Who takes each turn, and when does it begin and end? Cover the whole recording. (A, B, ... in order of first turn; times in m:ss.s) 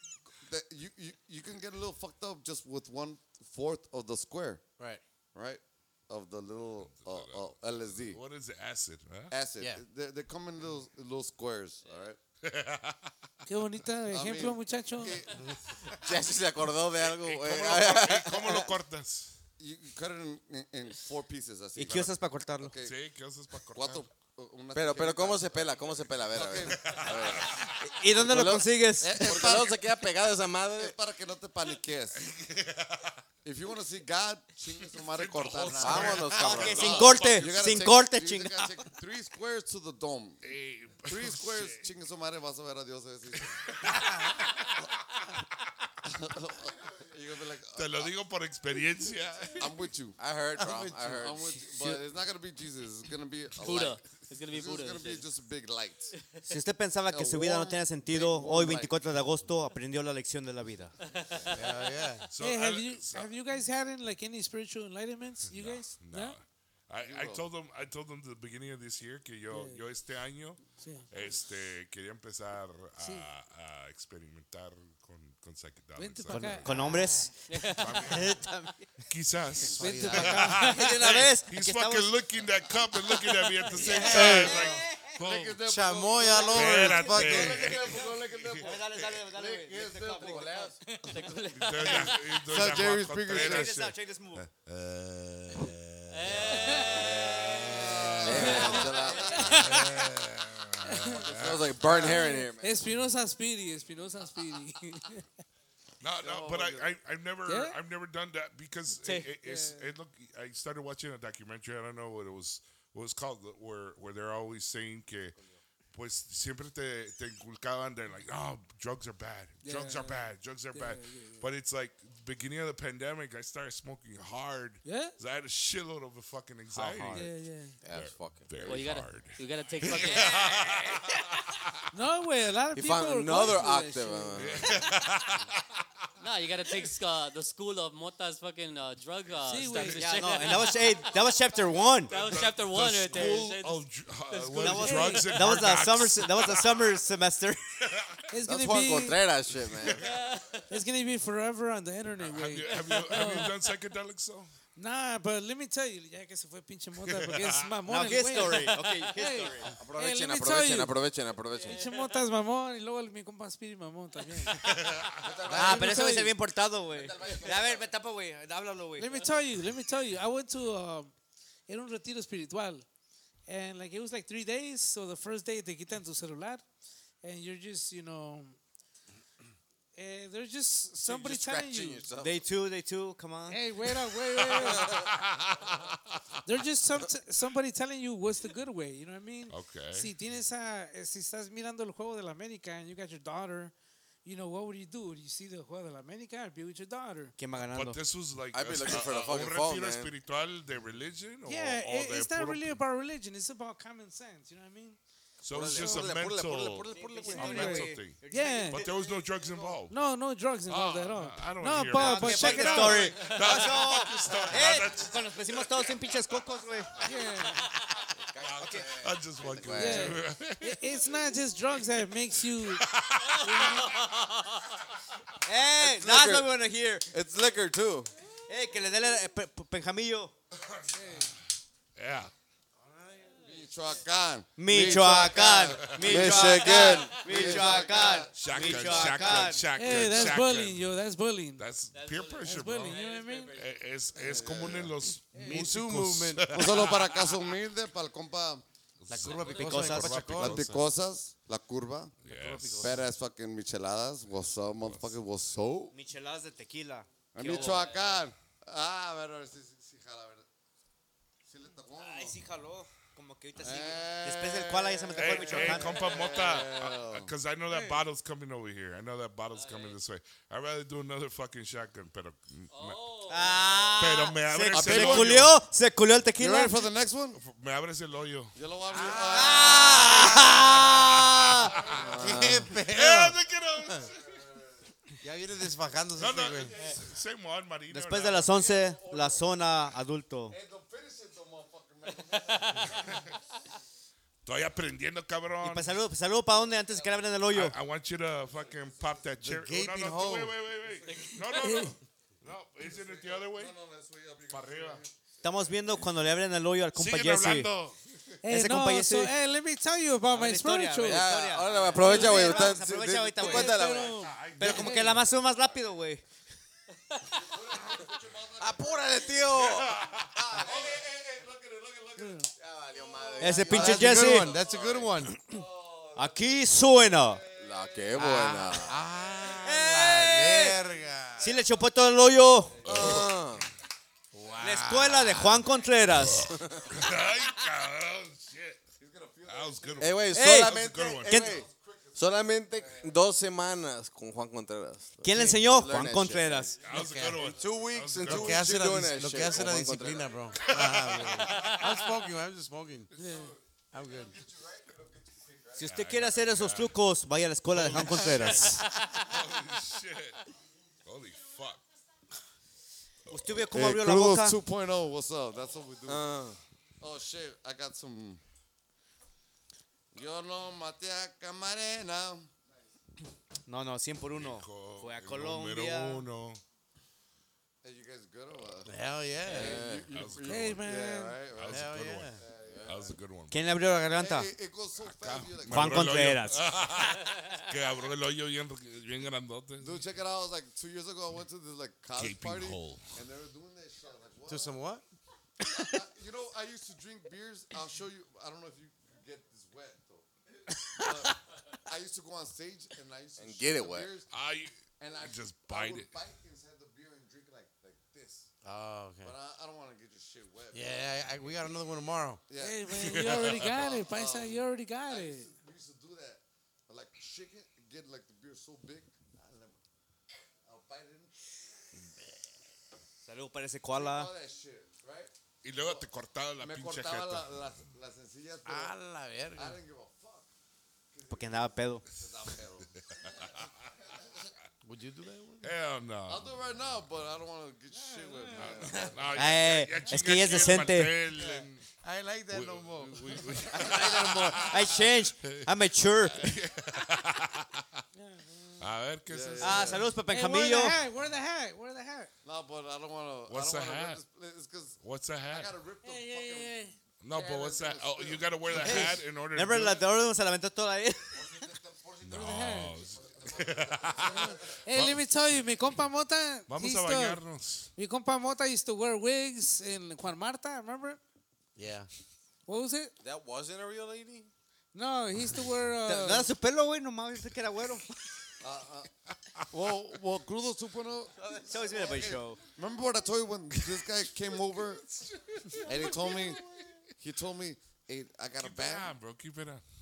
0:00.4-0:04.6 A
0:05.3-0:08.2 A
0:06.8-0:09.3 B
0:09.3-0:12.2 A
0:09.6-0:09.8 C
0:12.4-0:13.1 B
0:13.5-0:15.2 D
0:14.1-0:15.4 A
0:16.0-0:18.7 E
0:17.0-0:19.4 B
0:19.6-0:23.0 A
0:21.8-0:22.7 F
0:22.8-0:24.1 B
0:23.7-0:25.8 A
0:24.7-0:27.6 E
0:26.3-0:27.5 A
0:26.7-0:27.9 B
0:27.8-0:29.3 F
0:28.2-0:30.9 E
0:29.0-0:29.8 A
0:30.7-0:32.2 A
0:32.2-0:33.2 B
0:33.4-0:40.4 A
0:35.0-0:37.7 B
0:35.8-0:37.3 E
0:36.3-0:38.8 F
0:40.4-0:41.8 B
0:41.0-0:43.6 A
0:43.4-0:45.3 B
0:46.0-0:48.1 A
0:47.8-0:49.7 B
0:49.5-0:50.2 A
0:50.2-0:51.4 E
0:50.5-0:52.0 C
0:51.0-0:56.1 A
0:53.6-0:55.3 G
0:56.2-0:56.4 G
0:56.5-1:00.9 F
0:57.1-0:58.9 A
1:01.0-1:01.7 G
1:01.5-1:02.3 C
1:02.3-1:03.3 B
1:02.4-1:06.4 D
1:05.5-1:17.0 B
1:07.0-1:07.4 A
1:09.5-1:09.8 D
1:10.8-1:11.0 D
1:13.0-1:13.3 D
1:16.0-1:17.3 D
1:16.3-1:18.9 F
1:17.5-1:18.1 G
1:17.7-1:18.4 B
1:19.0-1:25.6 B
1:19.7-1:20.6 C
1:19.8-1:21.1 D
1:20.6-1:22.2 F
1:23.7-1:25.2 F
1:23.7-1:24.7 C
1:24.1-1:28.9 A
1:25.6-1:27.7 C
1:26.5-1:28.7 B
1:28.6-1:30.7 F
1:29.3-1:30.8 E
1:29.6-1:30.7 A
1:31.0-1:32.2 G
1:31.5-1:38.7 B
1:32.4-1:33.7 A
1:33.3-1:34.5 F
1:36.1-1:37.6 G
1:36.4-1:37.1 D
1:37.5-1:39.7 A
1:38.2-1:39.4 E
1:38.3-1:40.0 D
1:38.4-1:39.6 F
1:39.5-1:42.1 B
1:40.8-1:41.2 D
1:41.2-1:42.8 E
1:41.9-1:45.3 D
1:46.0-1:55.4 B
1:46.2-1:46.8 E
1:47.4-1:47.8 D
1:48.9-1:49.9 D
1:55.9-2:07.3 B
1:59.6-2:01.4 D
2:04.8-2:05.2 D
2:06.7-2:07.3 F
2:07.1-2:07.8 D
2:07.8-2:08.9 E
2:07.9-2:11.9 B
2:08.6-2:11.0 G
2:11.9-2:14.5 D
2:12.7-2:14.7 E
2:14.4-2:15.8 B
2:16.2-2:21.1 G
2:19.4-2:20.1 D
2:20.0-2:22.2 F
2:22.1-2:25.3 G
2:22.1-2:26.9 B
2:24.6-2:27.8 F
2:24.7-2:25.3 D
2:27.8-2:28.3 B
2:28.3-2:29.2 D
2:28.4-2:30.1 E
2:29.7-2:30.1 B
2:29.9-2:30.7 G
2:30.7-2:33.5 D
2:32.2-2:34.5 B
2:32.7-2:33.4 G
2:34.8-2:41.0 D
2:37.0-2:37.7 B
2:37.8-2:39.7 F
2:39.6-2:41.8 E
2:41.6-2:42.2 G
2:41.6-2:44.7 D
2:44.4-2:45.3 B
2:45.1-2:45.9 E
2:45.5-2:49.3 F
2:45.5-2:46.3 D
2:45.5-2:46.0 C
2:46.9-2:47.9 E
2:49.0-2:51.1 D
2:51.7-2:52.8 D
2:53.5-2:56.6 D
2:57.2-2:58.6 D
3:00.0-3:02.0 D
3:01.0-3:02.5 E
3:02.2-3:03.6 F
3:03.5-3:05.0 D
3:04.3-3:06.4 B
3:04.8-3:05.0 E
3:06.4-3:13.7 D
3:09.5-3:10.1 B
3:14.2-3:17.3 D
3:17.4-3:18.0 F
3:17.6-3:22.8 B
3:18.5-3:20.1 E
3:21.4-3:25.0 D
3:25.4-3:28.0 E
3:25.4-3:30.0 B
3:25.7-3:26.0 D
3:26.9-3:29.6 F
3:27.3-3:28.8 D
3:29.9-3:33.7 D
3:30.7-3:35.9 B
3:31.9-3:38.0 F
3:37.0-3:37.6 D
3:38.2-3:40.2 E
3:38.4-3:41.0 B
3:39.7-3:42.8 D
3:42.6-3:43.9 B
3:43.4-3:44.8 G
3:43.4-3:43.9 D
3:45.4-3:47.1 F
3:45.8-3:46.5 E
3:47.1-3:48.1 E
3:48.5-3:50.3 F
3:50.7-3:51.3 B
3:50.9-3:51.3 D
3:52.0-3:52.3 B
3:52.8-3:53.4 C
3:53.4-3:59.5 A
3:54.6-3:59.7 F
3:55.6-3:56.3 B
3:56.1-3:58.0 E
3:56.9-3:57.5 G
3:58.3-4:00.9 B
3:59.7-4:01.6 D
4:01.6-4:03.0 B
4:01.9-4:03.8 G
4:02.4-4:03.6 D
4:03.5-4:07.6 B
4:04.2-4:05.0 A
4:05.3-4:05.7 D
4:05.3-4:06.9 C
4:06.5-4:08.6 A
4:09.0-4:10.8 B
4:09.1-4:10.7 C
4:09.2-4:09.9 G
4:09.5-4:10.4 F
4:10.3-4:12.2 A
4:12.2-4:12.9 B
4:12.2-4:13.0 C
4:12.8-4:15.9 A
4:14.8-4:15.1 B
4:15.9-4:17.9 F
4:17.3-4:20.5 A
4:17.5-4:18.1 G
4:21.4-4:22.4 A
4:22.0-4:26.1 F
4:23.6-4:27.3 A
4:25.1-4:33.0 B
4:27.7-4:28.0 D
4:29.5-4:30.0 G
4:32.7-4:34.0 G
4:33.3-4:36.8 F
4:34.0-4:35.5 B
4:34.7-4:35.5 A
4:36.4-4:37.4 A
4:37.3-4:38.5 B
4:38.5-4:40.6 A
4:38.9-4:40.6 C
4:39.3-4:41.7 F
4:40.6-4:42.1 B
4:41.6-4:42.2 A
4:41.9-4:42.7 E
4:42.2-4:44.1 C
4:42.8-4:44.2 B
4:44.0-4:44.9 A
4:45.2-4:46.8 C
4:46.2-4:48.5 B
4:46.6-4:47.0 A
4:47.9-4:50.6 F
4:48.4-4:49.7 A
4:50.5-4:53.2 A
4:52.3-4:52.8 G
4:52.9-4:53.3 B
4:54.4-4:56.0 B
4:55.6-4:57.8 F
4:56.9-4:57.2 A
4:57.5-5:03.7 B
4:58.5-4:59.3 A
4:59.4-5:00.6 C
5:00.8-5:01.3 A
5:01.1-5:01.4 G
5:01.5-5:01.9 D
5:02.8-5:05.8 A
5:04.5-5:05.0 B
5:05.4-5:07.7 F
5:06.9-5:08.0 B
5:08.4-5:11.2 D
5:08.5-5:09.3 F
5:10.3-5:13.8 F
5:11.0-5:14.3 E
5:11.6-5:11.9 A
5:12.0-5:12.7 D
5:13.4-5:15.2 D
5:14.2-5:15.2 B
5:14.6-5:16.2 F
5:17.3-5:19.6 A
5:18.6-5:20.8 E
5:19.7-5:20.4 B
5:20.5-5:22.5 A
5:22.2-5:22.5 D
5:22.6-5:24.9 E
5:23.0-5:28.1 A
5:23.4-5:24.5 F
5:23.7-5:25.4 C
5:26.2-5:27.4 F
5:27.6-5:29.0 E
5:28.1-5:31.5 C
5:29.6-5:30.8 F
5:31.4-5:33.0 F
5:32.8-5:33.3 B
5:32.8-5:33.2 A
5:32.9-5:33.7 E
5:34.3-5:35.6 C
5:34.6-5:36.5 F
5:36.2-5:38.8 B
5:36.6-5:36.9 E
5:39.0-5:40.2 A
5:39.5-5:41.4 B
5:40.0-5:46.7 E
5:40.3-5:40.7 F
5:41.3-5:41.5 F
5:41.4-5:43.2 A
5:45.2-5:46.8 F
5:45.2-5:45.7 C
5:46.8-5:48.7 B
5:46.8-5:47.8 A
5:46.9-5:47.5 C
5:47.5-5:50.4 E
5:48.2-5:53.1 C
5:49.4-5:49.7 A
5:50.6-5:52.1 B
5:53.2-5:53.5 D
5:53.2-5:56.0 A
5:53.9-5:54.4 C
5:55.8-5:58.9 F
5:55.8-5:57.0 B
5:57.7-6:00.4 B
6:01.0-6:01.8 B
6:03.3-6:03.7 B
6:03.3-6:04.6 F
6:03.7-6:06.2 A
6:06.0-6:06.6 E
6:07.0-6:08.4 A
6:10.1-6:12.6 A
6:13.7-6:16.2 F
6:14.3-6:16.6 B
6:17.8-6:18.9 A
6:18.8-6:19.8 C
6:19.4-6:23.1 A
6:19.5-6:20.1 E
6:20.1-6:20.8 B
6:20.4-6:21.4 D
6:21.6-6:23.7 B
6:21.7-6:22.4 C
6:22.6-6:23.0 E
6:23.5-6:24.5 F
6:24.1-6:26.1 A
6:25.0-6:30.0 B
6:25.7-6:26.7 F
6:29.8-6:34.7 A
6:32.2-6:33.1 B
6:34.5-6:35.0 C
6:35.6-6:40.3 A
6:41.0-6:44.3 A
6:43.4-6:44.1 E
6:44.3-6:46.1 B
6:45.0-6:48.5 A
6:48.6-6:49.3 C
6:49.2-6:51.1 A
6:50.7-6:52.4 C
6:52.5-6:59.8 A
6:52.6-6:55.5 D
6:53.0-6:53.7 B
7:00.6-7:01.5 A
7:03.2-7:04.3 F
7:03.9-7:06.1 A
7:05.6-7:07.5 B
7:06.6-7:08.9 A
7:08.6-7:09.8 C
7:09.5-7:10.5 A
7:11.1-7:12.9 A
7:11.3-7:12.0 F
7:13.0-7:13.7 B
7:14.1-7:14.5 A
7:14.8-7:15.7 C
7:15.6-7:16.5 B
7:16.3-7:19.3 A
7:18.0-7:18.7 D
7:18.6-7:21.8 B
7:18.8-7:19.1 C
7:19.3-7:21.1 F
7:21.3-7:23.5 C
7:22.5-7:28.0 B
7:23.7-7:26.6 F
7:28.1-7:28.8 D
7:28.8-7:30.0 B
7:29.3-7:30.1 A
7:29.6-7:31.0 F
7:30.2-7:32.3 D
7:32.4-7:39.1 A
7:33.5-7:34.2 B
7:35.0-7:35.7 B
7:36.0-7:36.9 D
7:37.2-7:40.1 B
7:38.7-7:41.7 F
7:41.6-7:42.1 A
7:42.2-7:45.2 B
7:42.3-7:43.0 D
7:43.1-7:44.6 A
7:44.3-7:47.4 D
7:46.7-7:47.9 B
7:48.0-7:51.2 D
7:51.8-7:52.1 C
7:52.7-7:53.1 D
7:53.2-7:54.5 E
7:54.9-7:56.5 D
7:56.0-7:58.2 F
7:58.6-7:59.1 A
7:59.7-8:05.2 A
8:01.4-8:02.4 E
8:01.6-8:02.6 F
8:05.4-8:06.8 B
8:05.8-8:06.6 A
8:07.2-8:09.1 A
8:08.6-8:09.8 B